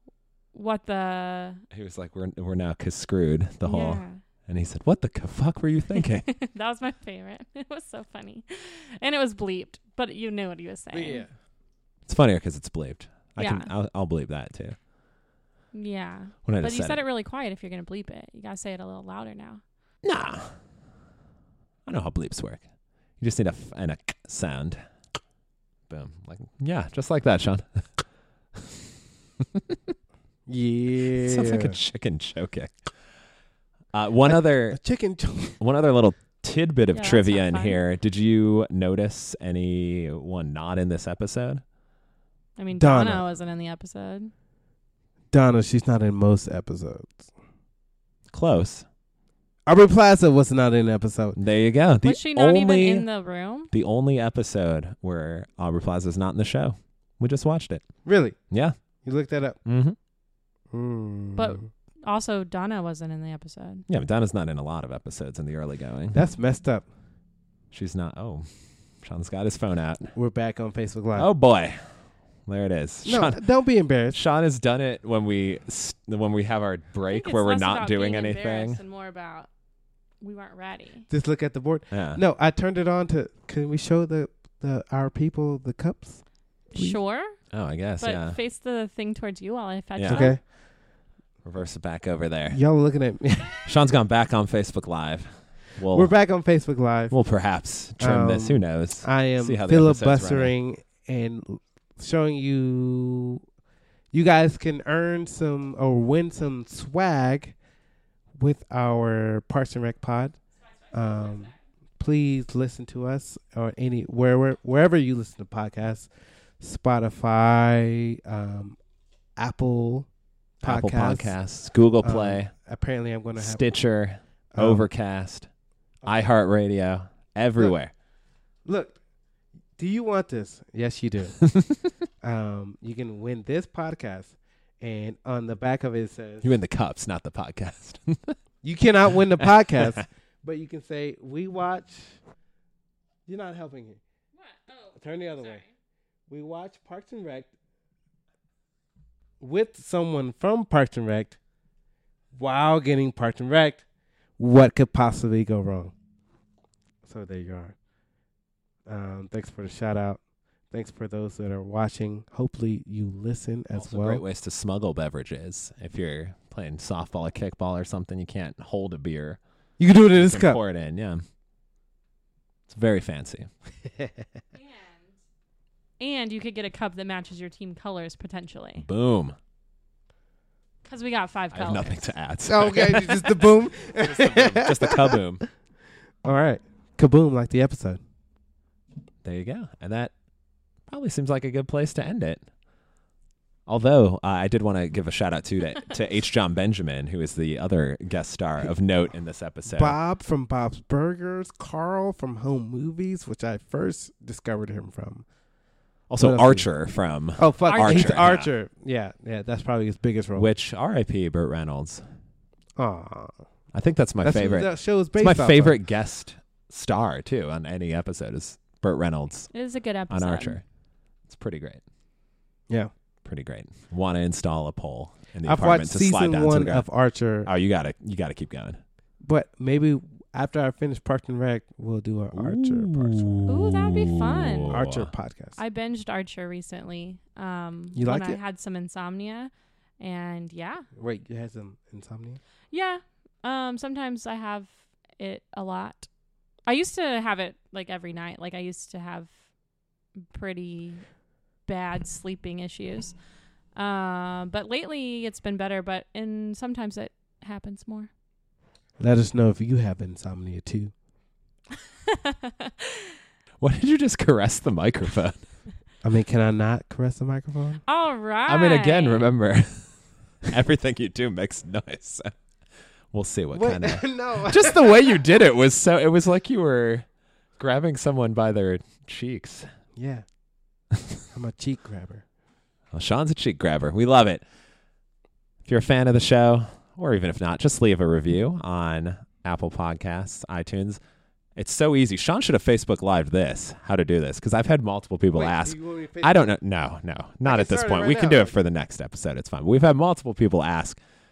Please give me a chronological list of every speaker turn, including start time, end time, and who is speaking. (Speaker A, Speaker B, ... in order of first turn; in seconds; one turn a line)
Speaker A: 0.5-1.6
Speaker B: 1.7-6.3
Speaker A: 3.6-4.2
Speaker A: 6.0-11.2
Speaker C: 10.9-11.3
Speaker B: 12.1-14.8
Speaker A: 13.4-13.7
Speaker A: 15.7-19.6
Speaker B: 16.4-17.0
Speaker B: 20.0-20.6
Speaker B: 21.8-22.6
Speaker B: 23.2-24.8
Speaker B: 25.9-27.9
Speaker B: 28.5-29.9
Speaker C: 30.5-31.8
Speaker B: 31.0-32.9
Speaker B: 33.9-34.8
Speaker C: 34.3-35.6
Speaker B: 35.6-41.6
Speaker A: 36.9-37.8
Speaker A: 42.6-44.3
Speaker C: 42.7-43.2
Speaker C: 45.3-47.3
Speaker B: 48.3-48.8
Speaker C: 49.7-51.4
Speaker B: 51.4-53.1
Speaker A: 52.0-53.7
Speaker B: 53.7-57.9
Speaker C: 58.0-58.4
Speaker B: 58.5-58.8
Speaker C: 59.0-59.6
Speaker B: 59.6-60.0
Speaker C: 60.7-61.7
Speaker A: 61.4-63.8
Speaker B: 63.9-66.2
Speaker C: 66.1-66.9
Speaker B: 67.7-68.5
Speaker B: 69.0-70.1
Speaker C: 70.1-71.3
Speaker B: 71.1-73.4
Speaker C: 73.0-74.2
Speaker B: 74.1-78.8
Speaker A: 77.1-79.5
Speaker A: 80.2-81.1
Speaker C: 81.1-86.2
Speaker B: 81.9-82.2
Speaker A: 86.7-87.3
Speaker C: 86.7-87.0
Speaker B: 87.5-88.4
Speaker A: 88.0-90.4
Speaker B: 90.0-90.3
Speaker C: 90.1-90.4
Speaker B: 91.4-92.6
Speaker C: 92.5-93.7
Speaker B: 93.6-96.1
Speaker C: 95.9-97.1
Speaker B: 97.1-100.5
Speaker C: 98.0-103.4
Speaker C: 104.1-107.6
Speaker C: 108.4-110.4
Speaker C: 110.9-118.8
Speaker C: 119.3-120.1
Speaker C: 120.6-121.3
Speaker B: 120.6-122.5
Speaker C: 122.0-123.7
Speaker B: 123.4-125.5
Speaker C: 124.5-124.9
Speaker B: 126.0-127.9
Speaker C: 128.7-129.0
Speaker C: 129.8-131.4
Speaker B: 131.4-131.8
Speaker C: 132.2-136.5
Speaker B: 136.4-138.4
Speaker C: 138.6-142.2
Speaker B: 139.4-140.0
Speaker C: 143.3-144.0
Speaker A: 144.4-145.7
Speaker C: 144.9-145.6
Speaker C: 146.3-147.5
Speaker C: 149.4-151.4
Speaker C: 152.3-153.8
Speaker C: 154.4-155.9
Speaker C: 157.0-157.8
Speaker C: 158.9-164.2
Speaker B: 163.8-169.4
Speaker C: 169.8-170.6
Speaker B: 170.1-171.2
Speaker B: 172.7-173.5
Speaker C: 173.8-174.2
Speaker A: 174.5-175.0
Speaker A: 176.0-178.8
Speaker B: 178.8-179.3
Speaker A: 180.8-182.1
Speaker B: 181.5-185.4
Speaker C: 182.4-185.2
Speaker C: 186.2-188.0
Speaker B: 189.2-190.1
Speaker B: 190.9-192.4
Speaker B: 193.7-200.0
Speaker C: 199.7-205.2
Speaker B: 206.1-208.5
Speaker C: 206.2-206.7
Speaker C: 207.3-210.5
Speaker A: 207.7-208.2
Speaker B: 210.3-212.1
Speaker C: 212.8-213.4
Speaker B: 213.7-219.5
Speaker C: 214.2-215.8
Speaker A: 219.5-220.6
Speaker B: 220.1-220.6
Speaker B: 221.3-221.8
Speaker B: 223.2-226.8
Speaker C: 225.4-227.5
Speaker B: 227.4-228.8
Speaker C: 229.2-233.3
Speaker B: 232.3-235.1
Speaker A: 233.5-234.8
Speaker C: 234.7-235.6
Speaker A: 235.6-240.9
Speaker C: 237.9-238.4
Speaker C: 240.9-242.4
Speaker A: 242.7-246.1
Speaker A: 246.7-249.3
Speaker A: 250.3-251.0
Speaker A: 251.7-253.2
Speaker A: 253.8-258.1
Speaker C: 259.0-260.9
Speaker A: 262.1-263.1
Speaker B: 263.6-265.4
Speaker C: 266.0-267.8
Speaker A: 267.9-269.3
Speaker B: 268.5-269.9
Speaker B: 270.5-272.3
Speaker B: 273.1-277.1
Speaker C: 273.5-275.2
Speaker B: 277.6-279.7
Speaker C: 279.9-280.2
Speaker C: 281.3-282.2
Speaker B: 282.9-284.4
Speaker B: 285.6-291.0
Speaker B: 291.6-301.0
Speaker C: 295.3-296.5
Speaker C: 297.4-298.5